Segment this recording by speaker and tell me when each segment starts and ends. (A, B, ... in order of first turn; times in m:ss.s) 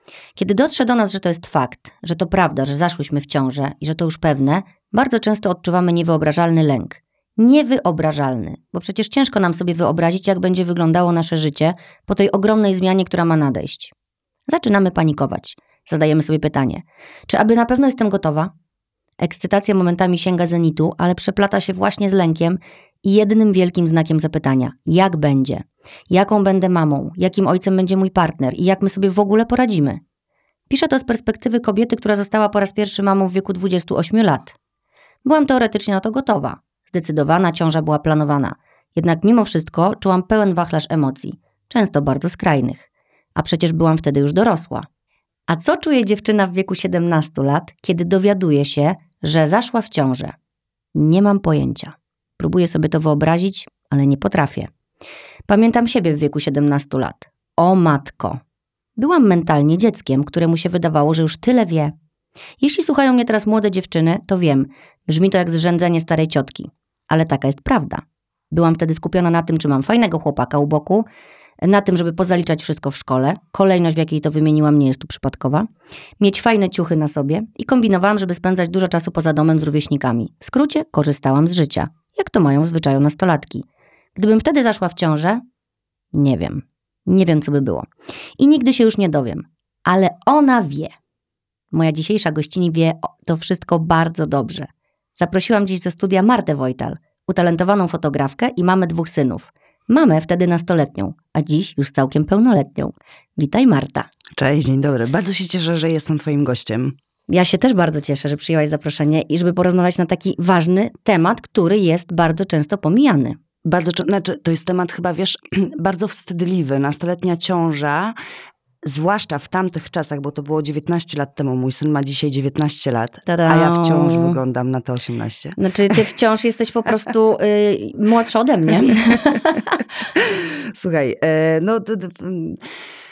0:00.4-0:13.9 A
0:14.5-0:18.5 A
0:19.2-0:30.0 A
0:30.7-0:34.5 A
0:35.2-0:42.8 A
0:43.4-0:44.9 A
0:45.5-0:50.3 A
0:50.9-0:54.7 A
0:55.5-0:58.4 A
0:59.0-1:01.9 A
1:02.6-1:11.0 A
1:11.6-1:15.7 A
1:16.2-1:23.6 A
1:24.2-1:25.4 A
1:26.1-1:30.9 A
1:31.7-1:44.1 A
1:44.3-1:46.9 B
1:47.3-1:53.4 A
1:53.6-1:58.2 B
1:58.8-2:06.1 B
2:03.3-2:04.4 A
2:05.6-2:09.8 A
2:10.1-2:12.6 B